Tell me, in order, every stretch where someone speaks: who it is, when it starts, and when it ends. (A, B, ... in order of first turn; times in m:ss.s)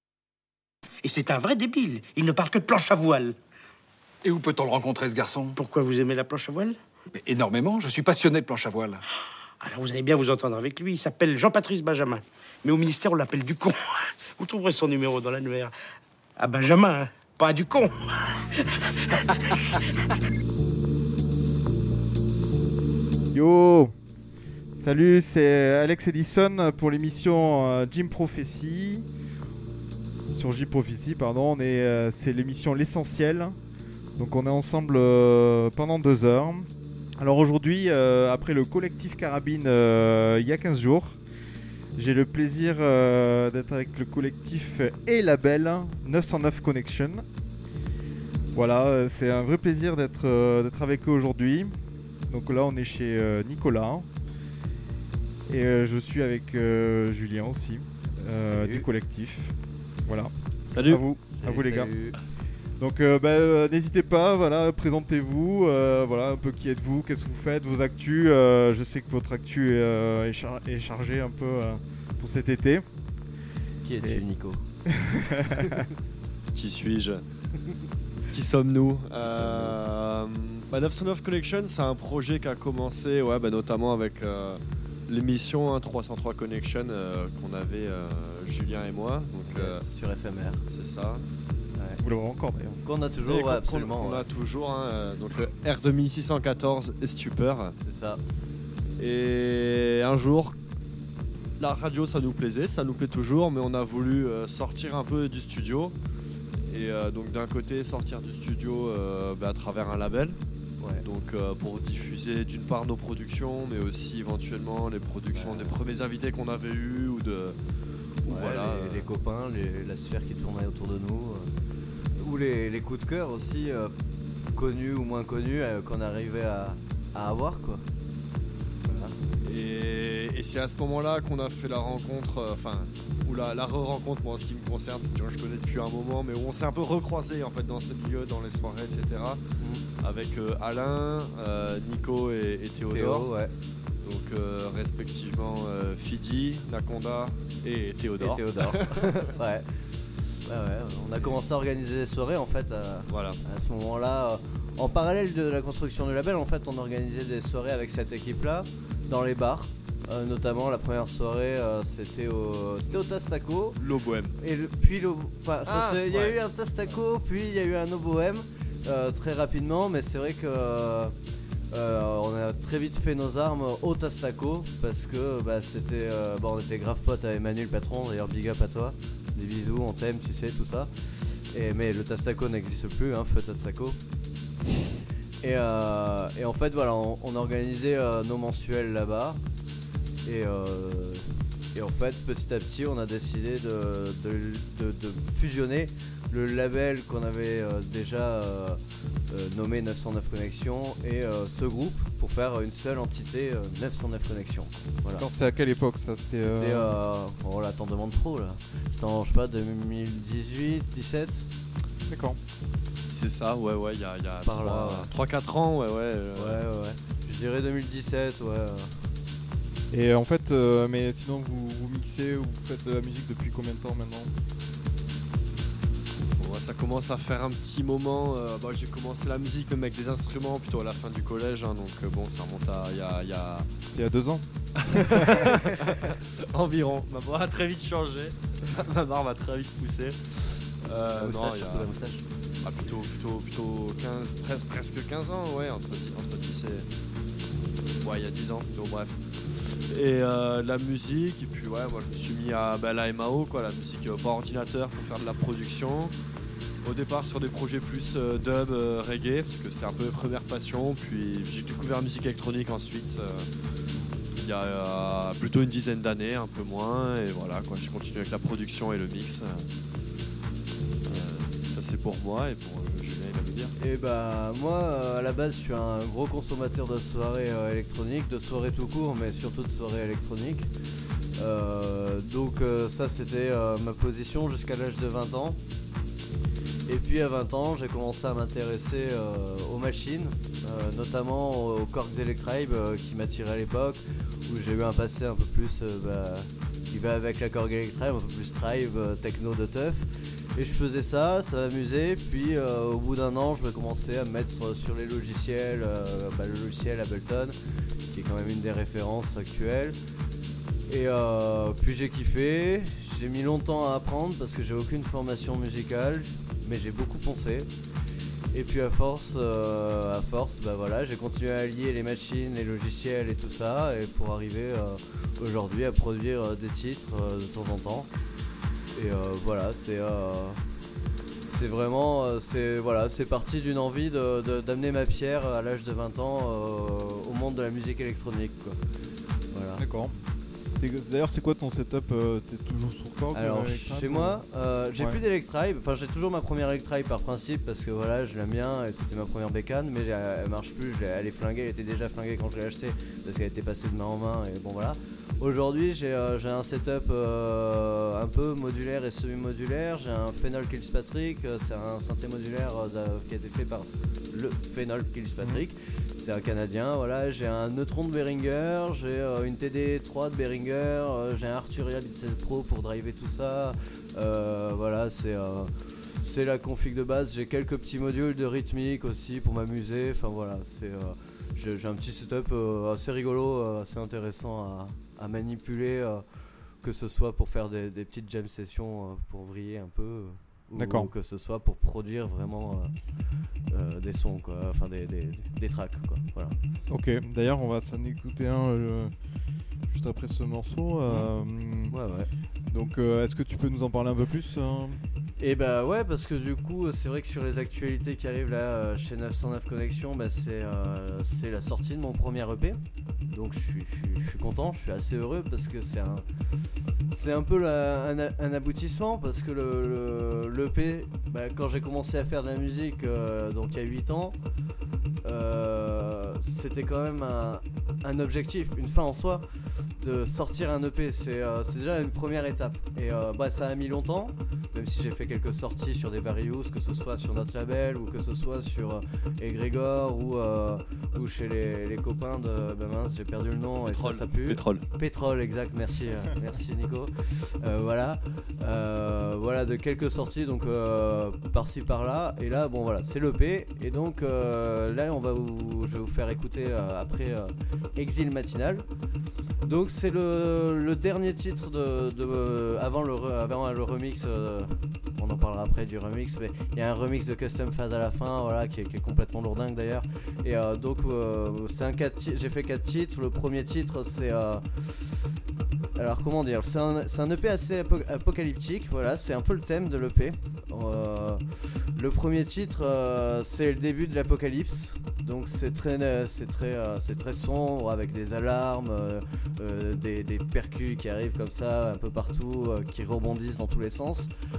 0:01.0-0:03.4 A
0:04.2-0:05.6 B
0:05.6-0:06.8 A
0:07.1-0:09.0 B
0:09.6-0:13.7 A
0:14.4-0:15.7 A
0:16.4-0:17.9 A
0:18.7-0:19.8 A
0:23.3-0:23.9 C
0:24.8-0:29.1 C
0:30.3-0:33.6 C
0:34.2-0:41.2 C
0:41.9-0:47.2 C
0:48.5-0:51.8 C
0:52.3-0:54.1 C
0:55.5-1:01.9 C
0:58.3-0:58.8 D
1:00.7-1:01.0 E
1:01.4-1:02.2 D
1:02.8-1:12.8 C
1:13.8-1:14.6 D
1:14.9-1:15.6 C
1:15.5-1:15.9 D
1:16.5-1:17.2 E
1:18.3-1:29.8 E
1:19.2-1:19.8 D
1:29.5-1:30.6 D
1:30.7-1:31.2 E
1:31.8-1:32.0 D
1:32.0-1:32.8 C
1:32.8-1:34.2 D
1:33.3-1:37.7 E
1:37.8-1:38.2 D
1:39.0-1:40.6 E
1:41.6-1:45.9 E
1:46.7-1:50.4 E
1:51.0-1:57.6 E
1:55.3-1:55.8 D
1:58.2-1:59.1 E
1:58.3-2:01.5 D
2:02.2-2:03.9 D
2:04.5-2:07.8 D
2:08.8-2:09.2 D
2:09.4-2:19.4 E
2:19.6-2:19.8 D
2:20.0-2:23.3 E
2:22.9-2:23.5 D
2:24.0-2:29.3 E
2:28.2-2:29.7 D
2:30.4-2:43.8 D
2:33.1-2:33.4 E
2:43.8-2:44.4 E
2:44.4-2:51.1 D
2:45.6-2:47.0 E
2:51.7-3:04.0 D
3:05.4-3:09.4 D
3:10.2-3:25.2 D
3:25.2-3:26.9 C
3:26.3-3:31.4 D
3:32.1-3:32.4 C
3:33.1-3:36.6 E
3:34.4-3:35.1 D
3:36.4-3:39.0 D
3:39.9-3:44.3 C
3:46.4-3:53.7 E
3:53.9-3:55.4 C
3:54.9-4:01.9 E
4:01.2-4:02.2 D
4:02.6-4:06.9 E
4:08.0-4:09.2 E
4:09.9-4:16.1 E
4:16.8-4:23.5 E
4:23.9-4:24.2 D
4:24.4-4:29.7 E
4:31.0-4:33.7 E
4:33.8-4:40.7 D
4:41.4-4:45.6 D
4:46.9-5:07.5 D
5:08.1-5:10.0 D
5:10.9-5:17.7 D
5:18.5-5:28.1 D
5:28.9-5:30.6 D
5:31.4-5:38.8 D
5:39.5-5:39.8 D
5:39.8-5:40.2 C
5:40.7-5:44.4 C
5:43.3-6:26.2 D
6:26.8-6:33.0 D
6:30.8-6:31.1 C
6:33.7-6:36.6 D
6:36.9-6:39.2 C
6:39.8-6:42.0 C
6:41.9-6:42.3 D
6:42.7-6:45.0 C
6:45.4-6:56.2 D
6:57.1-7:04.4 D
7:05.2-7:09.4 D
7:10.0-7:38.8 D
7:23.8-7:24.8 E
7:39.6-7:55.2 D
7:55.9-8:01.4 D
8:01.9-8:14.3 D